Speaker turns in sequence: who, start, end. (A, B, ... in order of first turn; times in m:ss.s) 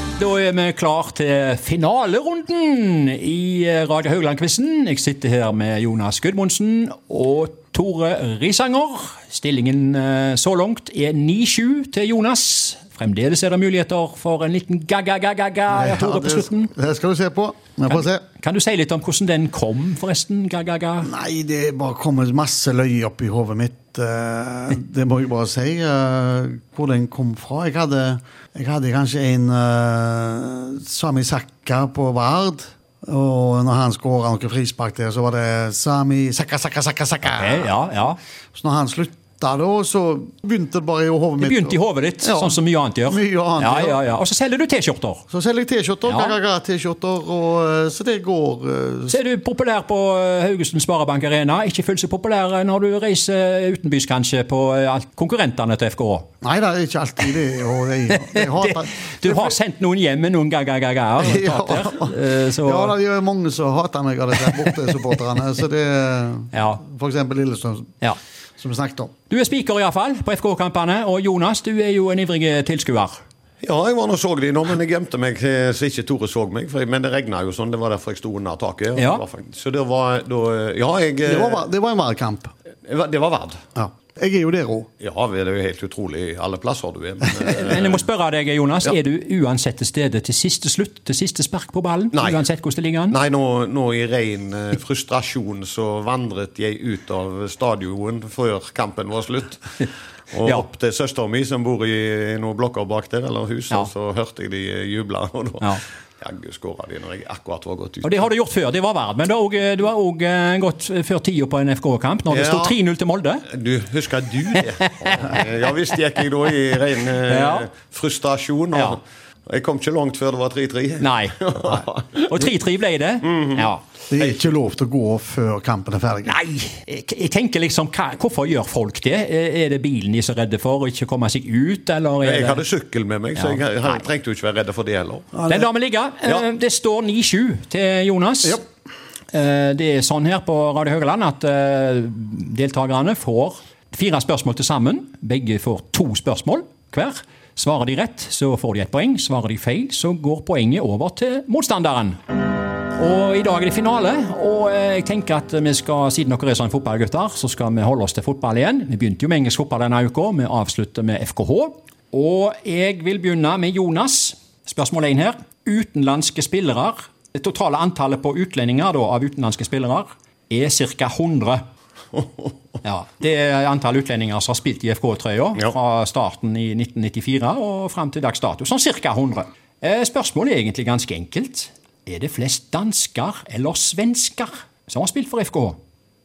0:00.2-0:16.7 A
0:15.7-0:18.2 B
0:17.9-0:21.1 A
0:21.0-0:37.8 B
0:37.3-0:38.2 A
0:38.5-0:44.0 B
0:41.4-0:45.2 A
0:45.3-0:49.2 B
0:46.1-0:46.4 A
0:49.1-0:56.3 A
0:56.4-0:59.6 B
0:58.1-1:03.0 A
1:01.2-1:07.9 B
1:06.5-1:06.8 A
1:08.6-1:09.1 B
1:09.3-1:13.2 A
1:13.6-1:21.6 C
1:19.0-1:19.2 A
1:21.2-1:22.5 B
1:22.9-1:23.6 C
1:23.8-1:24.9 B
1:25.0-1:28.0 C
1:27.4-1:33.2 A
1:32.1-1:32.4 C
1:33.1-1:39.6 C
1:40.3-1:48.3 C
1:48.0-1:53.4 A
1:52.3-1:52.8 C
1:53.5-2:02.4 C
1:54.5-1:55.5 A
1:57.2-1:57.7 A
2:01.0-2:03.8 A
2:03.2-2:04.2 C
2:04.1-2:06.4 B
2:06.2-2:12.6 A
2:12.2-2:15.3 C
2:13.4-2:14.0 A
2:15.3-2:15.7 B
2:15.5-2:18.6 A
2:19.3-2:32.2 A
2:33.0-2:51.6 A
2:52.8-3:05.8 A